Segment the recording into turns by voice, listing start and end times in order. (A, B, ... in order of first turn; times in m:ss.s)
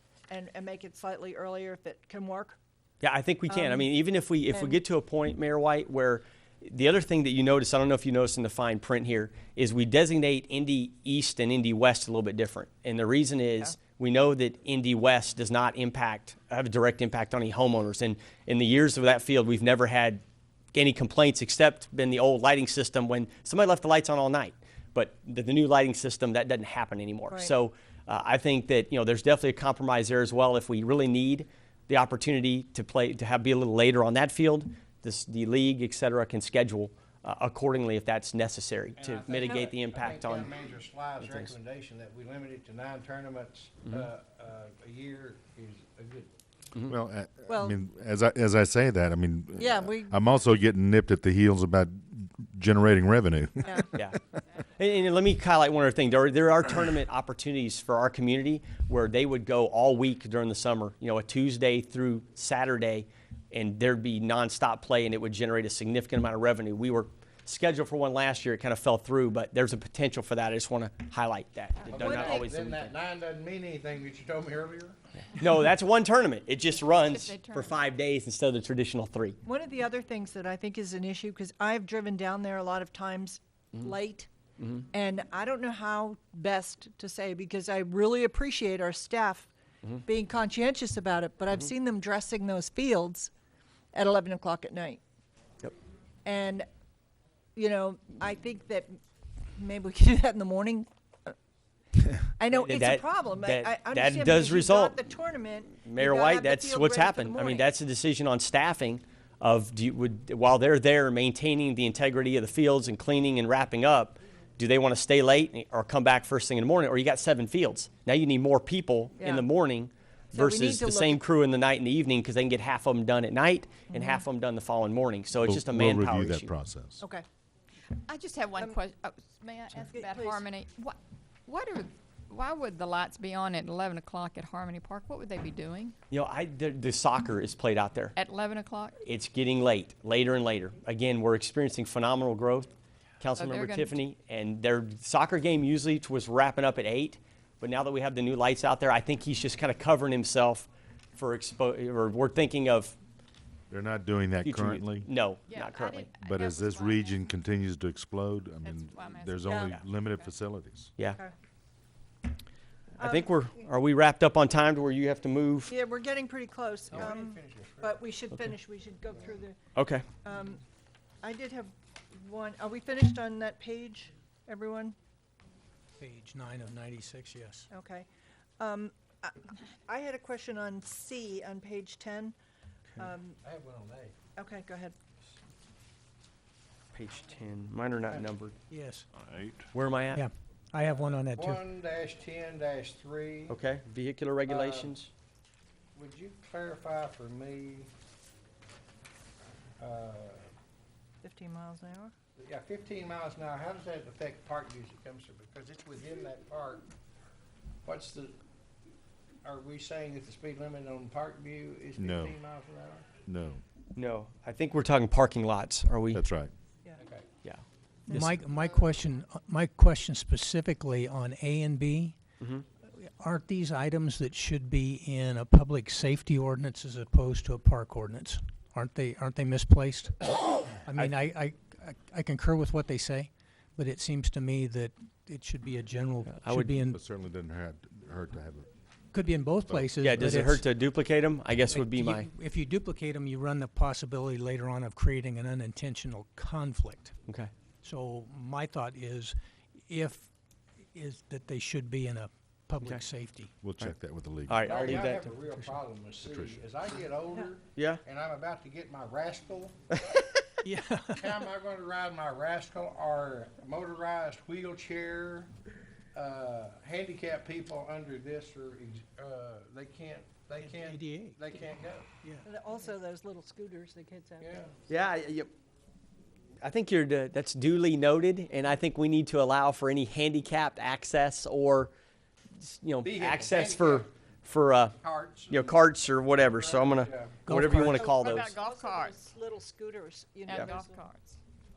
0:00.3-0:02.6 A
0:03.0-0:20.2 B
0:03.5-0:03.9 A
0:04.5-0:04.8 A
0:20.7-0:40.5 B
0:39.0-0:46.3 C
0:39.4-0:39.7 A
0:41.2-0:41.5 B
0:46.9-0:54.0 D
0:47.5-0:47.7 A
0:49.6-0:50.1 A
0:54.8-1:12.9 B
1:11.9-1:15.0 C
1:11.9-1:12.5 A
1:15.4-1:19.4 B
1:16.9-1:17.8 E
1:19.4-1:24.3 A
1:24.9-1:29.5 A
1:30.0-1:33.3 A
1:33.9-1:35.0 A
1:36.2-1:36.7 A
1:37.5-1:39.0 A
1:39.6-1:41.3 A
1:42.2-1:47.7 A
1:42.5-1:45.0 B
1:45.8-2:06.5 B
1:59.2-1:59.4 A
2:00.3-2:01.2 A
2:03.9-2:04.2 A
2:05.4-2:07.0 D
2:07.0-2:07.2 A
2:07.9-2:15.9 E
2:09.7-2:10.4 A
2:16.1-2:18.1 B
2:18.2-2:19.0 E
2:19.0-2:33.0 B
2:23.4-2:24.0 E
2:33.7-2:35.1 D
2:34.4-2:36.1 B
2:35.5-2:37.2 E
2:36.2-2:40.9 D
2:38.6-2:40.2 E
2:39.5-2:39.8 A
2:43.0-2:43.4 A
2:43.0-2:45.7 B
2:45.7-2:49.6 A
2:46.9-2:48.0 C
2:49.7-2:50.0 B
2:50.2-2:50.6 A
2:51.2-2:55.0 A
2:56.0-2:57.7 F
2:57.7-2:58.1 A
2:58.6-3:02.4 A
3:03.0-3:03.4 A
3:03.4-3:04.1 C
3:04.4-3:05.0 A
3:06.9-3:08.5 B
3:08.1-3:08.3 C
3:08.7-3:09.1 F
3:09.2-3:09.6 D
3:09.7-3:10.2 B
3:10.1-3:11.6 F
3:10.9-3:13.6 C
3:13.5-3:15.1 B
3:14.4-3:15.0 C
3:15.9-3:17.9 C
3:19.8-3:20.5 C
3:21.2-3:22.1 A
3:22.4-3:26.8 C
3:27.8-3:28.4 C
3:29.4-3:33.1 C
3:32.0-3:32.4 D
3:33.2-3:33.6 D
3:33.9-3:36.2 B
3:36.1-3:36.5 D
3:37.0-3:37.2 C
3:38.1-3:42.2 F
3:42.9-3:57.0 F
3:56.2-3:56.7 B
3:56.9-3:58.7 D
3:59.1-4:00.6 F
3:59.6-3:59.9 D
4:00.0-4:02.3 B
4:01.7-4:07.2 F
4:07.8-4:10.3 F
4:10.9-4:13.5 F
4:13.6-4:15.1 D
4:14.5-4:15.3 B
4:14.6-4:20.0 C
4:16.2-4:16.6 D
4:17.7-4:18.0 B
4:20.6-4:21.3 F
4:21.1-4:25.5 C
4:26.1-4:32.1 C
4:30.6-4:31.7 F
4:32.4-4:34.6 A
4:34.4-4:34.7 C
4:34.9-4:35.5 B
4:36.6-4:41.9 B
4:42.6-4:45.0 B
4:43.0-4:44.1 C
4:45.0-4:47.4 C
4:45.5-4:48.6 B
4:47.4-4:48.1 F
4:47.8-4:51.0 A
4:48.0-4:49.1 E
4:50.5-4:51.4 E